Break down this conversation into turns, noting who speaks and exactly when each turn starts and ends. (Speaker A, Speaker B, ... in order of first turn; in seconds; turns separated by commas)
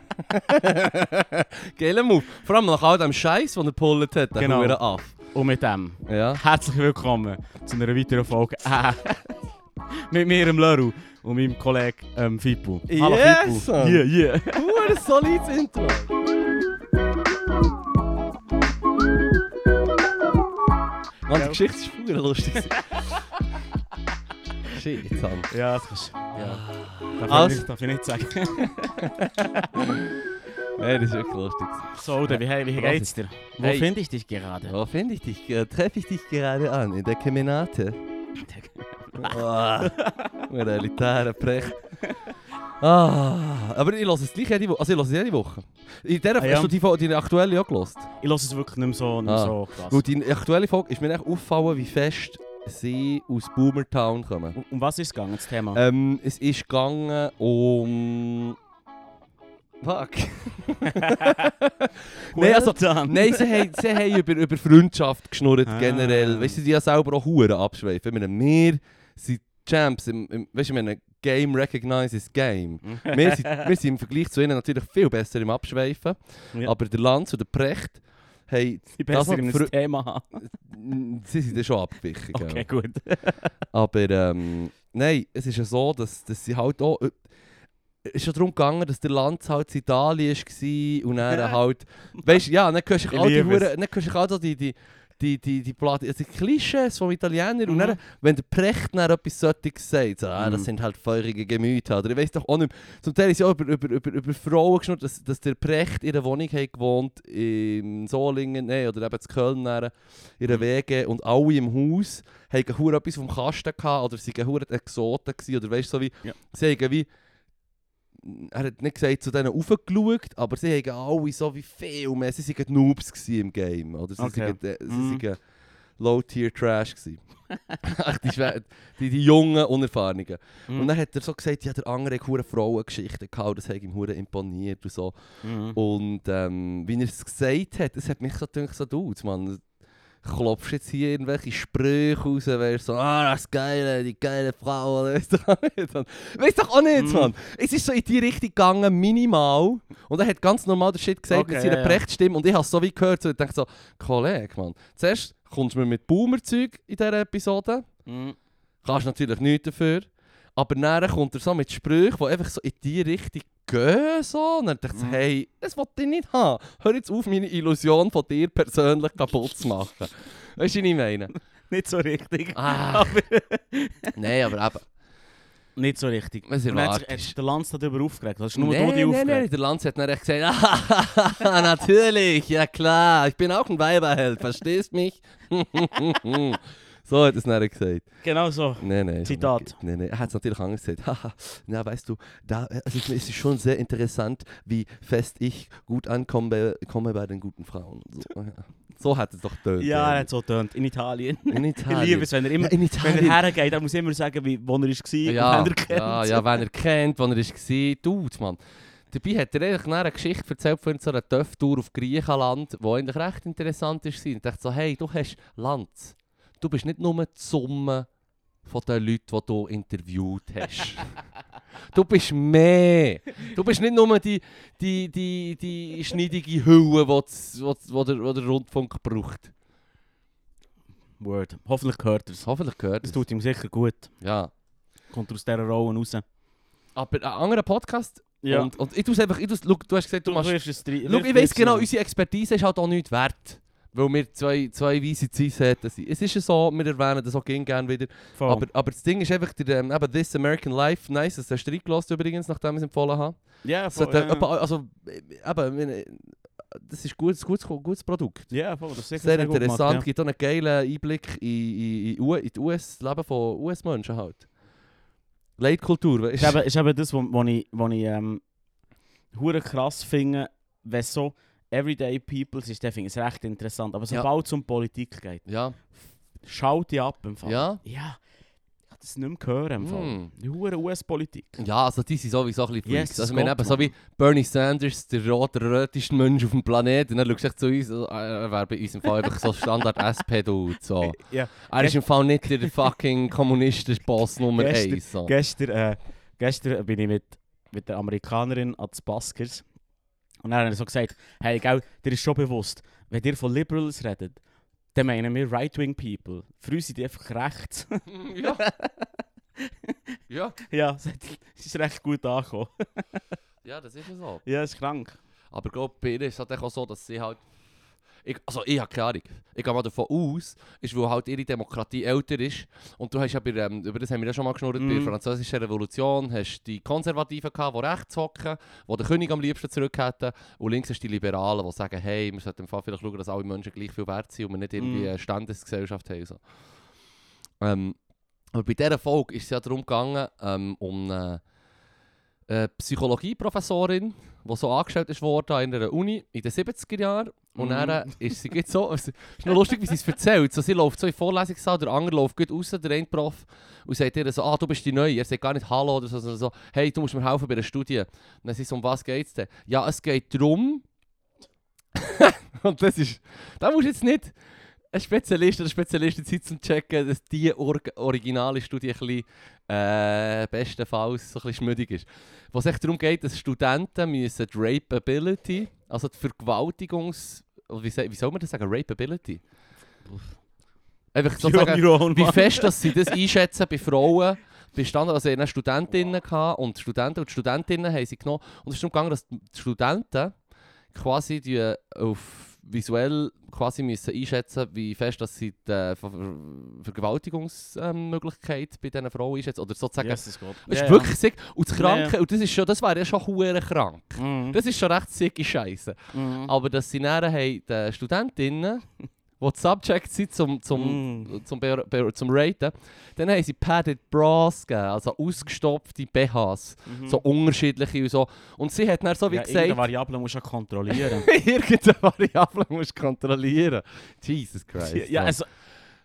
Speaker A: 0.2-5.1, Speaker B: 4.4-9.3, Speaker A: 6.0-6.4, Speaker B: 10.1-14.6, Speaker A: 12.9-16.1, Speaker A: 21.2-22.8, Speaker B: 21.3-21.6, Speaker A: 24.7-25.5, Speaker B: 25.5-26.6, Speaker A: 26.4-27.6, Speaker B: 27.2-29.1, Speaker A: 29.0-30.1, Speaker A: 30.8-33.9, Speaker B: 31.9-34.8, Speaker A: 34.7-38.0, Speaker B: 38.4-40.5, Speaker A: 39.2-41.8, Speaker A: 42.8-48.1, Speaker B: 46.4-46.7, Speaker B: 48.2-50.0, Speaker A: 49.3-54.5, Speaker B: 54.5-55.8, Speaker A: 55.7-58.5, Speaker A: 59.8-79.7, Speaker B: 60.9-61.5, Speaker B: 62.3-63.7, Speaker B: 65.7-66.6, Speaker B: 72.8-73.7, Speaker B: 79.0-80.4, Speaker A: 80.4-82.7, Speaker B: 82.3-83.5, Speaker A: 83.7-87.2, Speaker A: 88.0-117.1, Speaker B: 93.1-93.7, Speaker B: 97.7-98.0, Speaker B: 100.4-100.7, Speaker A: 118.2-125.4, Speaker B: 124.2-125.2, Speaker A: 126.0-127.2, Speaker A: 127.8-135.1, Speaker B: 135.4-135.8, Speaker A: 135.7-139.6, Speaker A: 140.2-157.9, Speaker B: 146.9-147.3, Speaker B: 151.3-152.0, Speaker B: 158.1-158.3, Speaker A: 158.8-171.3, Speaker B: 171.7-174.1, Speaker A: 172.5-173.2, Speaker A: 174.1-174.9, Speaker B: 175.8-179.4, Speaker A: 176.4-177.3, Speaker A: 178.5-188.1, Speaker B: 188.2-189.8, Speaker A: 188.8-200.3, Speaker B: 199.8-206.6, Speaker A: 201.5-203.4, Speaker A: 205.2-218.1, Speaker A: 218.6-221.1, Speaker A: 221.9-229.5, Speaker B: 231.2-232.5, Speaker A: 232.4-233.2, Speaker B: 233.0-234.1, Speaker A: 234.2-234.5, Speaker B: 235.1-236.2, Speaker A: 236.9-253.4, Speaker B: 238.4-238.7, Speaker B: 240.2-241.9, Speaker B: 248.3-248.7, Speaker B: 253.6-254.5, Speaker A: 253.9-258.5, Speaker B: 258.5-260.1, Speaker A: 259.2-264.5, Speaker A: 265.6-266.6, Speaker B: 266.4-268.4, Speaker B: 269.3-275.4, Speaker A: 275.4-275.8, Speaker B: 276.4-278.2, Speaker A: 277.4-277.8, Speaker B: 278.9-281.6, Speaker A: 279.8-280.3, Speaker A: 281.6-295.3, Speaker B: 282.8-283.9, Speaker B: 291.1-292.8, Speaker B: 294.5-299.6, Speaker B: 300.4-304.4, Speaker B: 304.9-309.1, Speaker A: 308.1-308.6, Speaker B: 309.6-309.9, Speaker A: 310.3-310.6, Speaker B: 310.7-313.2, Speaker A: 313.6-314.4, Speaker B: 314.4-315.2, Speaker A: 315.5-317.4, Speaker A: 318.2-336.4, Speaker B: 324.8-325.1, Speaker B: 334.8-335.1, Speaker A: 337.6-338.0, Speaker A: 338.5-341.4, Speaker A: 342.5-360.8, Speaker B: 347.5-348.1, Speaker A: 361.9-364.4, Speaker A: 364.9-379.4, Speaker A: 381.1-390.3, Speaker B: 381.4-383.1, Speaker A: 390.9-408.8, Speaker B: 400.0-401.1, Speaker B: 401.8-402.1, Speaker B: 404.2-404.6, Speaker B: 406.1-406.5, Speaker A: 409.4-419.8, Speaker B: 410.7-411.3, Speaker B: 416.9-417.2, Speaker B: 419.3-421.3, Speaker A: 420.9-425.4, Speaker B: 424.8-425.5